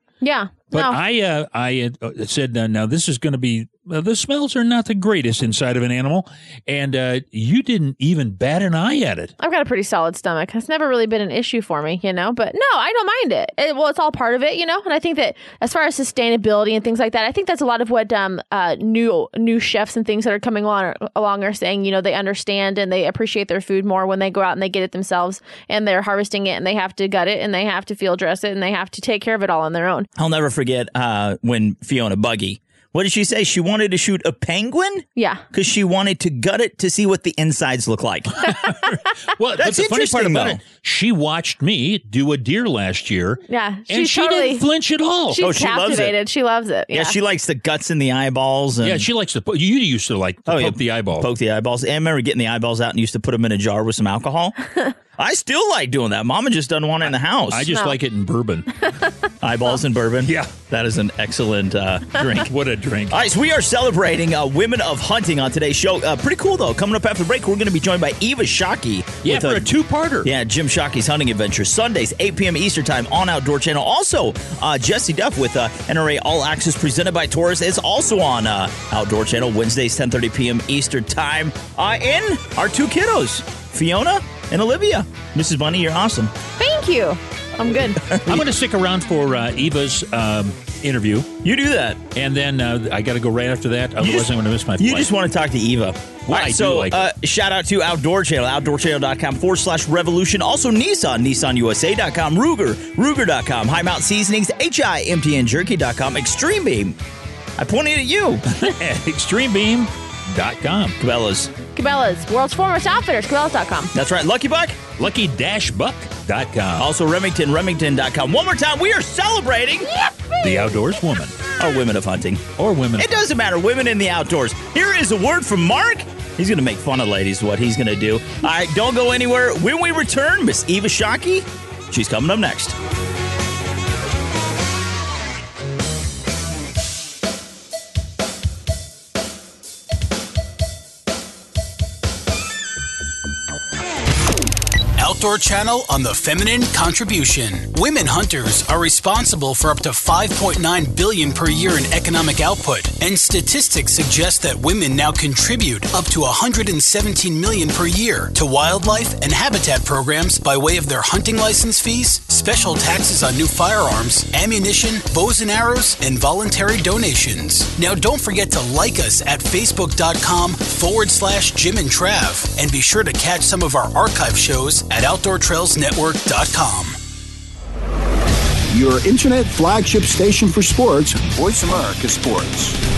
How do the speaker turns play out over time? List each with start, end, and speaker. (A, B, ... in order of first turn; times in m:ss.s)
0:00.2-0:01.0 A
0:00.7-0:09.3 B
0:09.4-0:30.1 A
0:30.2-0:38.5 C
0:35.2-0:35.4 A
0:39.4-0:45.4 B
0:39.6-0:40.6 C
0:43.5-0:44.6 A
0:45.3-0:47.2 A
0:45.4-0:46.1 C
0:46.9-0:49.0 C
0:48.8-0:51.3 B
0:50.5-0:54.5 C
0:55.2-0:57.7 C
0:57.5-0:58.7 B
0:59.4-1:02.5 C
1:02.4-1:03.2 B
1:03.1-1:09.7 C
1:09.2-1:10.3 B
1:10.2-1:26.3 C
1:26.6-1:28.0 A
1:28.1-1:28.5 C
1:28.3-1:31.3 B
1:31.4-1:32.0 C
1:32.1-1:35.1 B
1:34.0-1:47.0 C
1:36.3-1:37.0 B
1:47.6-1:48.4 C
1:48.6-1:51.0 B
1:51.0-1:51.5 C
1:51.8-1:53.9 A
1:53.9-1:54.8 C
1:55.0-1:56.8 B
1:56.8-1:59.9 C
2:00.4-2:01.5 B
2:01.6-2:02.4 C
2:02.6-2:03.1 B
2:03.0-2:12.8 C
2:25.0-2:57.0 D
2:58.7-3:02.8 E